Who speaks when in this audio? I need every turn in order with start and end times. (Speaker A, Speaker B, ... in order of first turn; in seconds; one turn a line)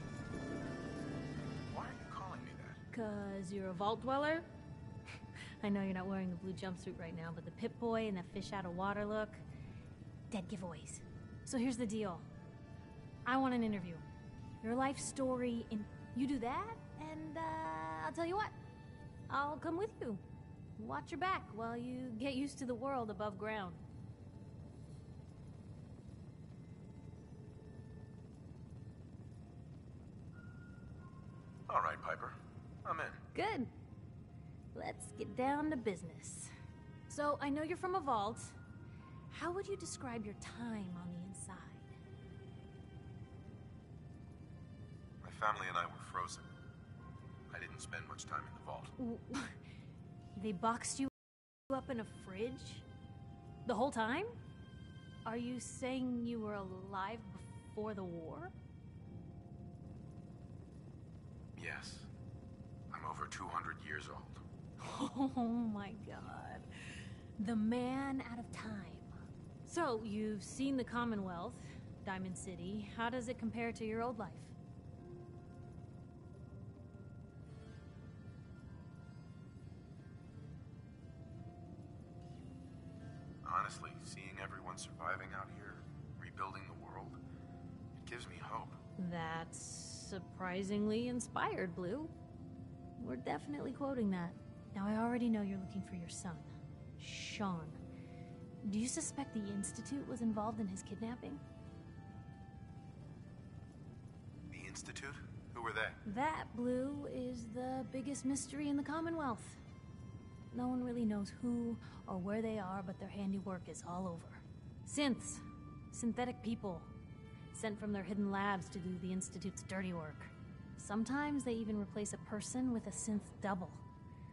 Speaker A: 1.7-2.8
Speaker B: 2.9-4.5
Speaker B: 5.6-9.4
Speaker B: 10.3-12.3
Speaker B: 13.2-14.0
Speaker B: 14.6-18.6
Speaker B: 19.3-20.2
Speaker B: 20.8-23.8
Speaker A: 31.7-33.2
Speaker B: 33.3-33.7
Speaker B: 34.7-36.5
Speaker B: 37.1-38.5
Speaker B: 39.3-41.9
Speaker A: 45.2-46.5
Speaker A: 47.5-48.9
Speaker B: 49.0-49.6
Speaker B: 50.4-51.1
Speaker B: 51.7-52.9
Speaker B: 53.6-54.3
Speaker B: 55.2-58.5
Speaker A: 61.6-62.1
Speaker A: 62.9-64.4
Speaker B: 64.8-66.7
Speaker B: 67.4-69.1
Speaker B: 69.7-74.6
Speaker A: 83.4-87.2
Speaker A: 88.0-88.8
Speaker B: 89.0-92.1
Speaker B: 93.0-97.8
Speaker B: 98.6-101.4
Speaker A: 104.5-106.0
Speaker B: 106.1-109.6
Speaker B: 110.5-116.9
Speaker B: 117.5-123.8